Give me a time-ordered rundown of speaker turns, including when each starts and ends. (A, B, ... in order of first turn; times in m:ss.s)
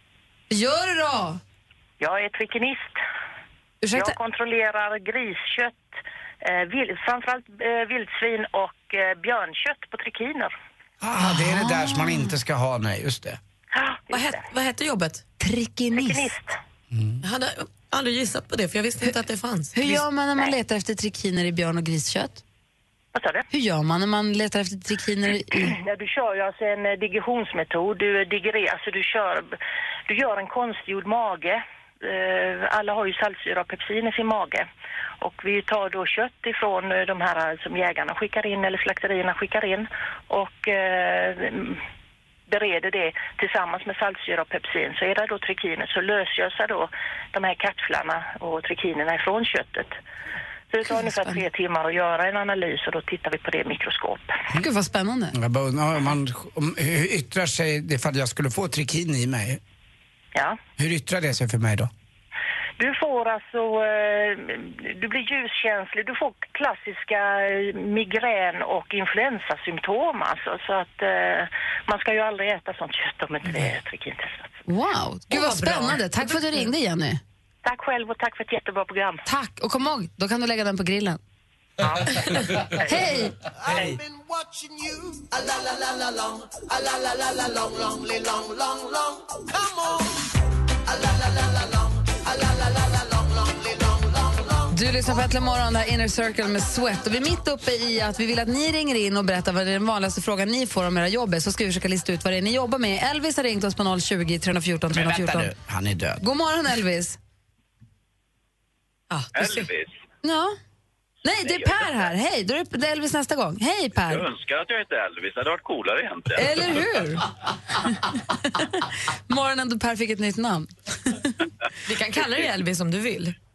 0:00.5-0:01.4 A
0:02.0-0:03.0 B
0:03.8-0:04.1 A
0:03.9-0:10.5 B
0:11.0-0:13.4 C
0:11.2-0:12.3 A
0:13.7-0:14.4 B
0:14.1-0:15.2 D
0:15.4-0:16.3 A
0:15.9-0:16.6 B
0:16.9-0:17.2 C
0:17.2-0:20.0 D
0:19.7-0:22.4 A
0:23.1-0:23.4 B
0:23.5-0:25.8 A
0:25.7-0:34.7 B
0:35.2-0:41.8 B
0:42.5-0:50.0 B
0:50.7-0:54.4 B
0:50.9-0:51.4 A
0:54.6-0:55.4 A
0:55.3-0:59.6 C
1:00.8-1:01.9 C
1:02.8-1:14.5 B
1:14.7-1:17.2 A
1:15.3-1:16.6 D
1:17.6-1:19.2 B
1:19.2-1:21.2 A
1:21.8-1:22.2 B
1:22.8-1:23.4 A
1:23.6-1:30.1 E
1:30.9-1:34.0 E
1:34.7-1:45.5 A
1:44.9-1:46.2 C
1:46.2-1:47.2 A
1:49.1-1:49.7 D
1:49.3-1:50.0 F
1:50.2-1:50.6 A
1:51.2-1:54.2 A
1:51.4-1:52.0 F
1:54.0-1:56.6 F
1:56.4-1:57.3 A
1:57.8-2:01.4 A
2:01.8-2:03.3 D